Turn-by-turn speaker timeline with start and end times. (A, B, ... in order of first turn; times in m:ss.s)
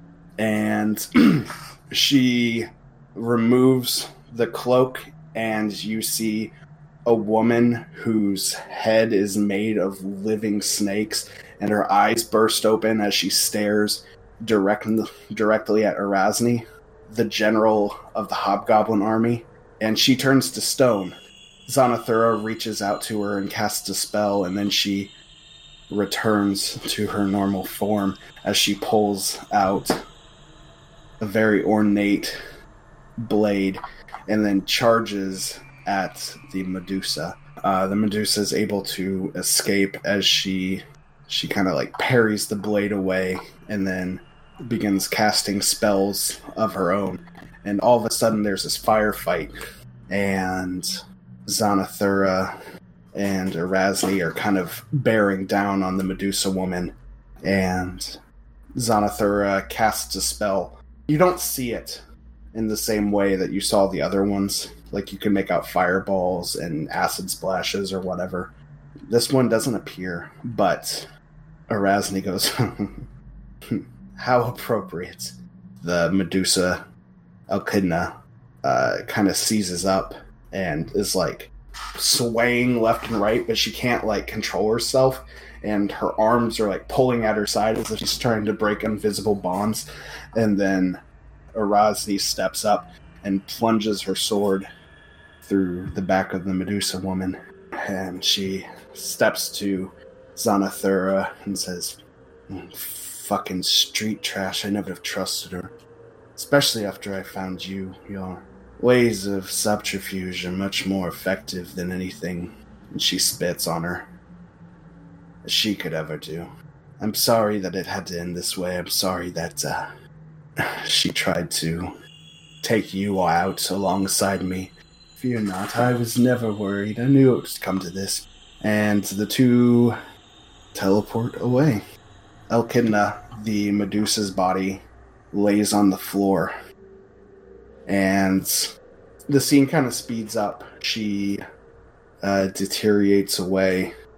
0:00.4-0:06.5 A
0:07.0-0:21.2 A
0:21.7-0:25.1 A
0:25.9-0:30.0 A
0:31.2-0:32.4 A
0:33.2-0:49.5 A
0:50.1-0:50.9 A
0:51.4-0:52.5 A
0:53.1-0:58.2 A
0:58.7-1:02.0 A
1:02.5-1:08.5 A
1:09.1-1:11.1 A
1:11.7-1:13.1 A
1:13.7-1:16.8 A
1:17.5-1:31.0 A
1:31.5-1:34.7 A
1:35.4-1:45.7 A
1:46.4-1:54.1 A
1:55.4-1:59.9 A
2:00.6-2:01.9 A
2:02.6-2:10.0 A
2:10.7-2:11.8 A
2:12.5-2:16.5 A
2:17.8-2:18.7 A
2:19.3-2:21.4 A
2:22.2-2:23.9 A